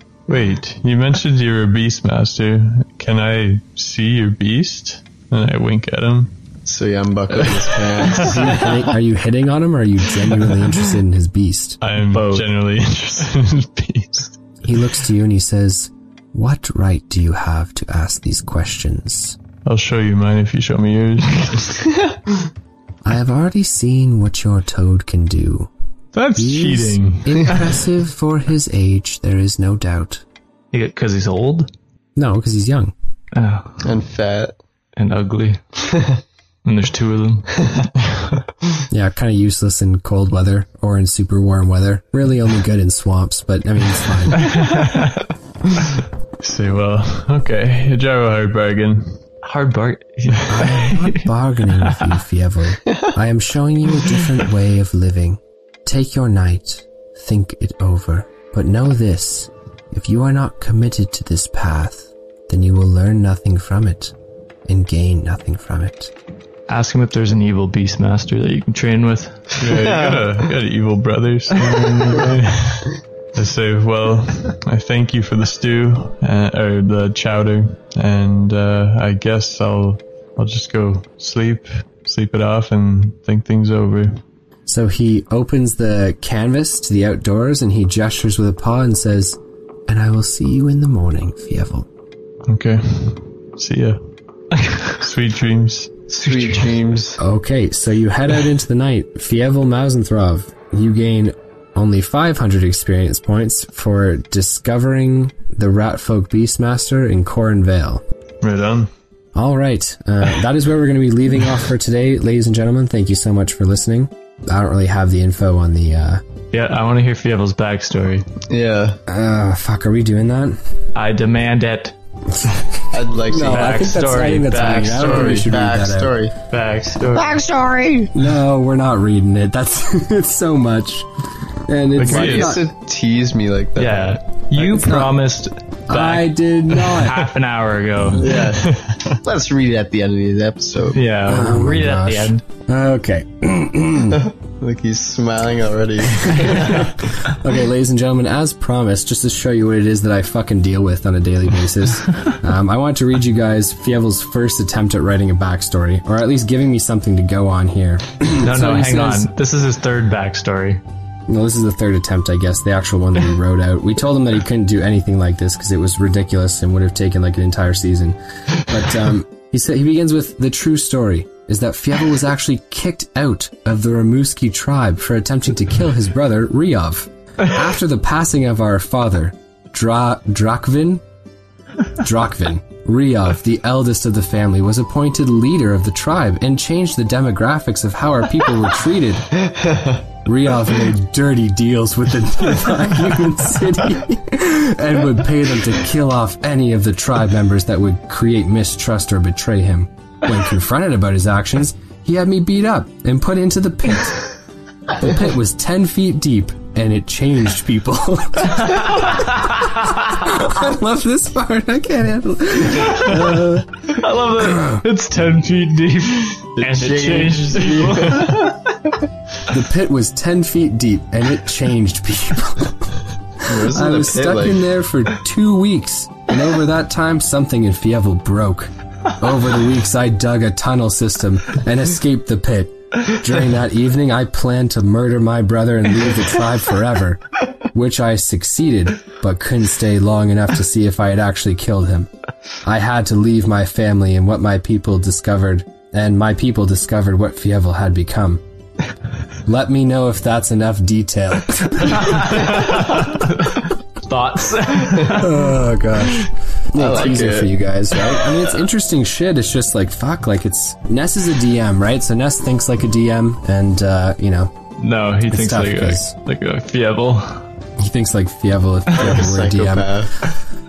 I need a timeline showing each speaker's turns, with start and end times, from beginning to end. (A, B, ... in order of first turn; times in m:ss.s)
0:00.3-0:06.3 A
0:06.7-0:08.9 B
0:08.0-0:08.4 A
0:08.2-0:11.8 C
0:11.8-0:14.4 A
0:12.1-0:12.5 D
0:14.6-0:19.4 C
0:19.6-0:21.9 A
0:23.0-0:25.7 C
0:26.1-0:27.8 A
0:26.4-0:30.2 C
0:30.7-0:31.7 D
0:32.2-0:32.9 C
0:33.3-0:33.8 D
0:33.8-0:34.6 B
0:35.0-0:35.6 D
0:35.8-0:36.2 B
0:36.6-0:37.7 D
0:38.9-0:44.5 C
0:44.4-0:45.3 D
0:46.4-0:49.2 A
0:49.4-0:51.3 D
0:50.5-1:04.1 C
0:51.8-0:52.1 D
1:04.7-1:06.1 C
1:06.7-1:09.6 D
1:09.6-1:24.2 A
1:09.7-1:10.3 B
1:24.7-1:31.9 C
1:32.5-1:34.0 A
1:34.5-1:35.0 D
1:35.0-1:36.0 A
1:36.1-1:36.7 D
1:36.1-1:37.2 B
1:37.2-1:48.0 C
1:48.4-1:48.9 A
1:49.3-1:56.2 C
1:56.5-1:58.3 D
1:58.5-1:59.0 B
1:59.1-2:00.6 C
2:01.0-2:02.0 D
2:02.9-2:03.9 B
2:03.2-2:06.2 C
2:03.5-2:05.5 D
2:04.9-2:06.4 B
2:06.5-2:07.4 D
2:07.1-2:08.1 B
2:08.1-2:11.1 C
2:11.7-2:12.7 C
2:12.0-2:12.6 A
2:12.0-2:14.2 B
2:13.8-2:18.6 D
2:14.5-2:15.2 C
2:15.9-2:17.2 C
2:18.0-2:21.0 B
2:18.4-2:19.2 A
2:20.9-2:22.4 D
2:21.2-2:24.3 C
2:24.1-2:26.9 B
2:27.0-2:39.3 C
2:38.4-2:40.8 D
2:41.3-3:01.0 C
3:02.0-3:09.4 C
3:09.5-3:10.0 B
3:10.2-3:24.3 C
3:25.0-3:33.8 C
3:33.9-3:38.6 D
3:34.4-3:34.8 C
3:36.6-3:38.5 B
3:39.5-4:02.1 C
3:43.4-3:44.7 B
4:02.6-4:08.4 C
4:09.4-4:12.5 C
4:12.1-4:15.5 D
4:15.1-4:24.5 C
4:16.7-4:18.2 B
4:24.8-4:27.4 D
4:25.3-4:26.1 C
4:27.8-4:30.4 C
4:28.9-4:30.3 B